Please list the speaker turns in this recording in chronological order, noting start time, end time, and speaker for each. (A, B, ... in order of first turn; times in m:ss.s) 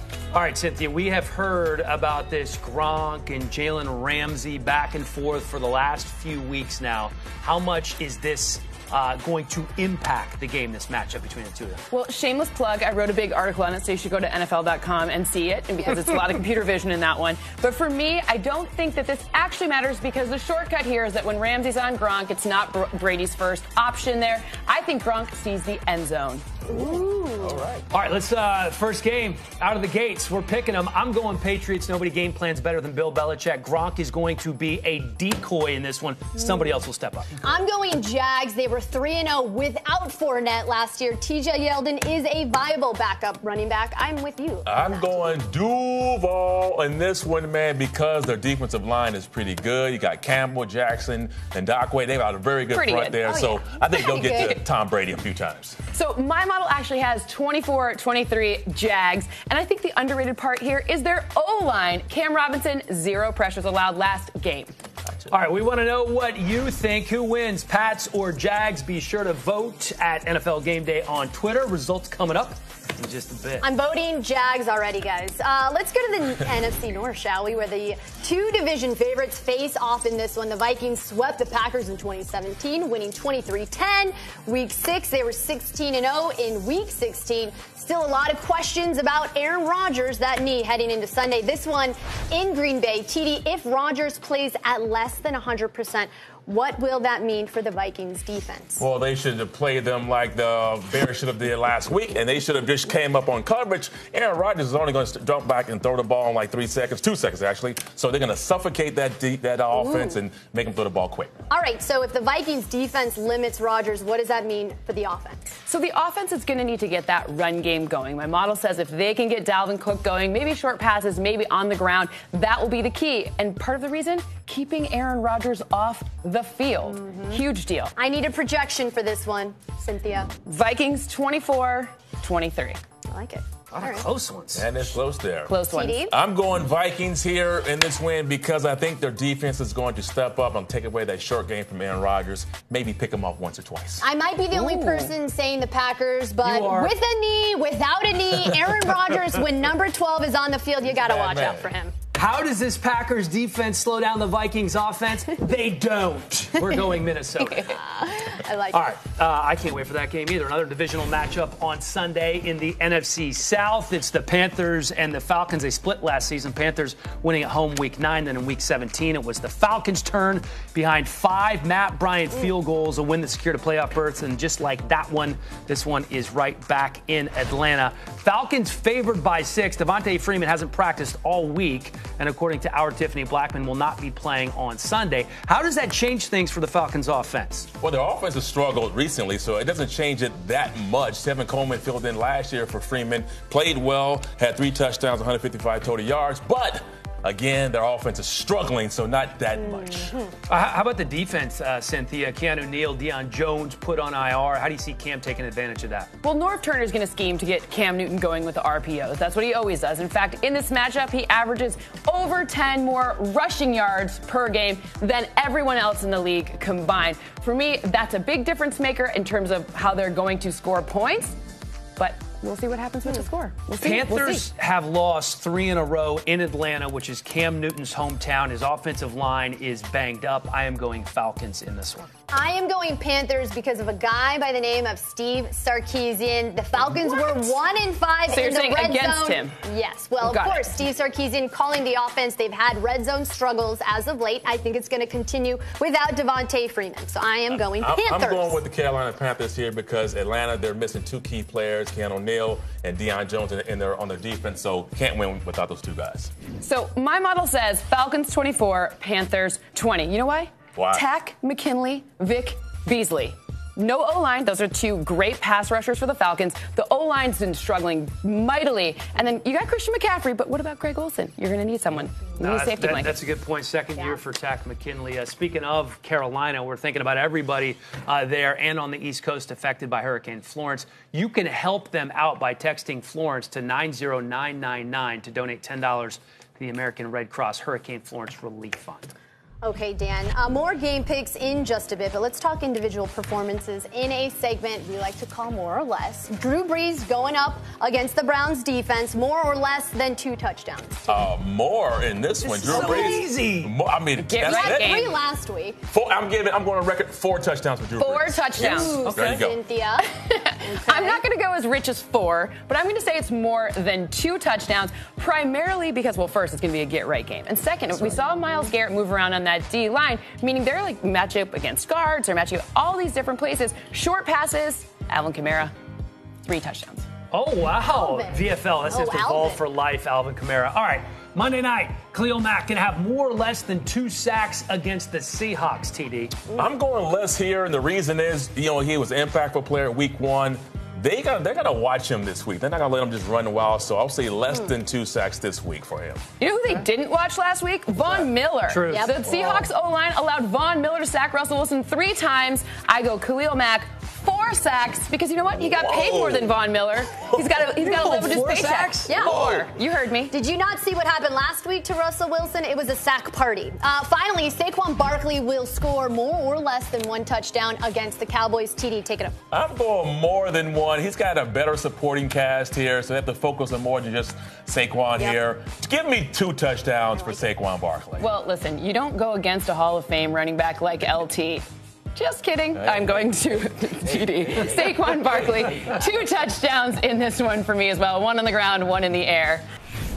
0:00.3-0:11.8 A
0:11.9-0:26.4 B
0:26.7-0:27.6 C
0:27.4-0:27.8 D
0:27.9-0:37.5 A
0:37.4-0:45.4 C
0:44.6-0:55.8 D
0:52.7-0:53.4 B
0:53.3-0:54.5 C
0:53.9-0:54.6 B
0:55.9-1:04.7 B
1:05.3-1:13.7 A
1:13.6-1:38.8 C
1:38.8-1:51.3 D
1:49.7-1:50.2 C
1:51.5-1:55.5 C
1:55.7-2:07.9 B
2:06.8-2:07.4 C
2:08.0-2:10.3 C
2:10.4-2:12.8 B
2:13.1-2:14.1 C
2:13.7-2:14.9 A
2:14.5-2:15.6 D
2:15.4-2:16.1 B
2:15.7-2:16.1 C
2:16.1-2:24.1 D
2:24.0-2:31.9 C
2:24.5-2:25.1 B
2:26.4-2:26.9 A
2:30.9-2:31.7 D
2:32.1-2:37.7 A
2:37.4-2:37.7 B
2:37.7-2:38.9 C
2:38.7-3:07.7 A
3:07.8-3:20.1 D
3:20.0-3:20.3 C
3:20.5-3:26.1 A
3:26.2-3:41.4 B
3:42.0-3:44.4 B
3:43.8-3:52.1 A
3:52.3-4:08.6 C
3:58.3-3:59.6 B
4:00.2-4:00.7 B
4:07.6-4:16.3 D
4:16.6-4:33.2 B
4:20.7-4:21.0 D
4:32.4-4:49.1 A
4:49.6-5:01.2 C
5:01.1-5:05.0 D
5:02.4-5:03.7 A
5:02.6-5:03.2 C
5:04.2-5:05.2 B
5:04.4-5:05.8 C
5:05.9-5:09.6 D
5:08.0-5:09.4 B
5:08.6-5:10.1 C
5:10.2-5:25.7 B
5:10.7-5:11.2 C
5:26.4-5:27.0 B
5:27.3-5:36.3 A
5:27.9-5:29.6 C
5:36.6-5:46.2 D
5:46.4-6:00.3 B
5:48.7-5:49.6 A
5:48.9-5:49.2 C
5:55.6-5:56.5 D
5:57.8-5:59.4 A
5:59.1-5:59.4 C
5:59.2-5:59.6 D
6:00.3-6:09.3 C
6:09.5-6:18.2 D
6:18.2-6:29.6 B
6:22.8-6:23.2 D